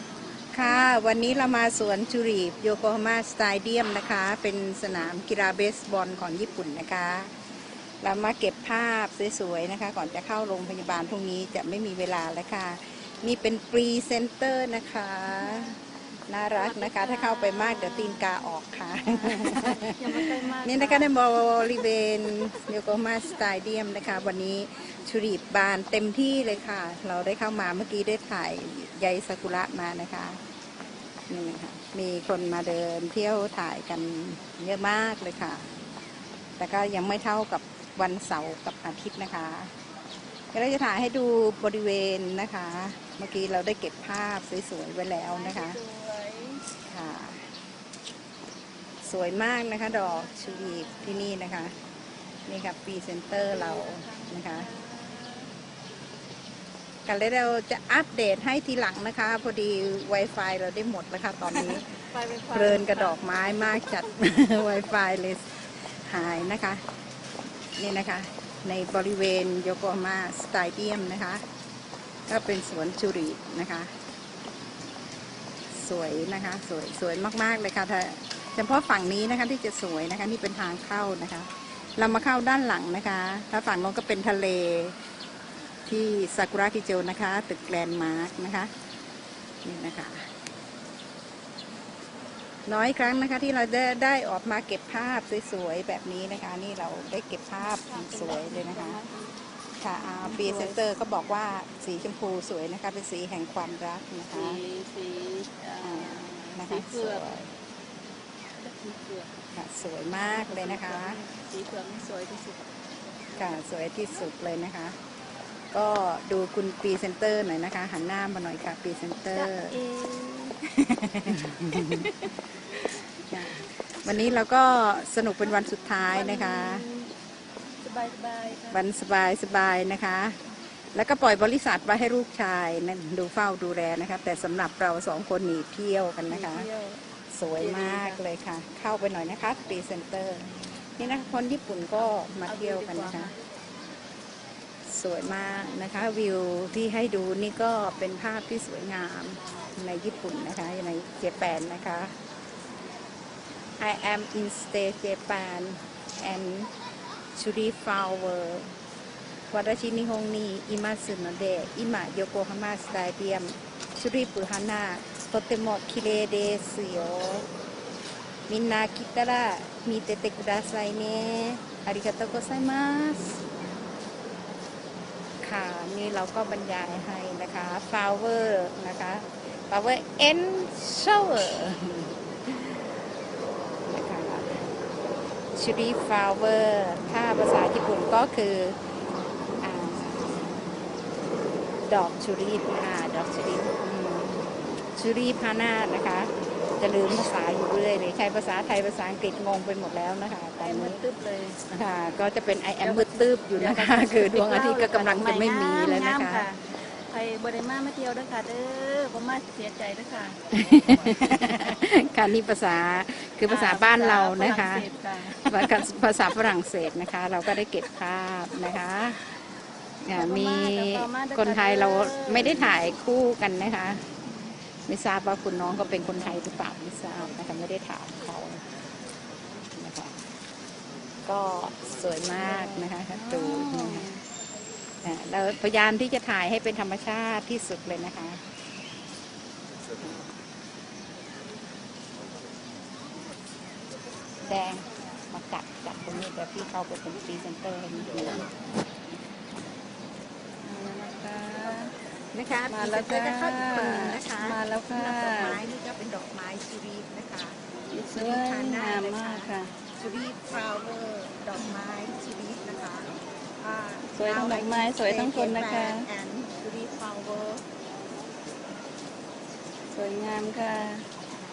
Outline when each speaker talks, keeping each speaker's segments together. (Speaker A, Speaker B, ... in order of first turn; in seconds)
Speaker A: 0.5-7.3, 8.0-15.7, 16.3-30.4, 31.3-35.6, 36.6-39.7, 40.5-45.8, 46.8-47.5, 49.0-51.7, 52.5-54.7, 57.0-61.8, 62.5-66.8, 67.8-71.4, 72.3-73.9, 75.7-84.9, 85.9-88.7, 89.6-90.2, 92.7-99.0, 99.8-104.6, 105.8-107.5, 109.5-111.2, 113.4-115.0, 115.7-119.8, 120.9-122.0, 123.3-126.8, 128.7-130.4, 130.9-136.7, 137.3-143.3, 144.8-152.1, 153.8-156.7, 157.3-158.7, 159.5-167.4, 168.5-173.4, 175.4-182.1, 183.9-184.6, 185.6-188.8, 189.6-190.7, 191.9-201.0, 201.7-206.4, 210.5-219.2, 220.0-224.1, 224.9-228.6, 229.8-230.2, 231.2-234.1, 235.0-238.4, 244.4-248.5, 252.3-257.6, 258.1-267.6
Speaker B: 15.3-15.8, 16.5-18.4, 18.9-21.1, 45.3-46.6, 49.9-51.3, 53.3-55.5, 61.5-63.4, 97.6-99.3, 100.2-100.8, 104.3-107.3, 108.6-109.3, 110.1-112.6, 119.3-120.6, 121.7-123.5, 126.0-127.1, 127.8-128.8, 136.3-137.0, 137.6-138.2, 142.0-143.3, 200.6-201.6, 202.8-210.4, 213.5-215.8, 220.1-222.7, 224.2-224.5, 226.1-226.5, 232.3-234.2, 250.6-251.9, 252.7-255.6, 257.9-259.7, 264.1-266.1, 269.9-271.1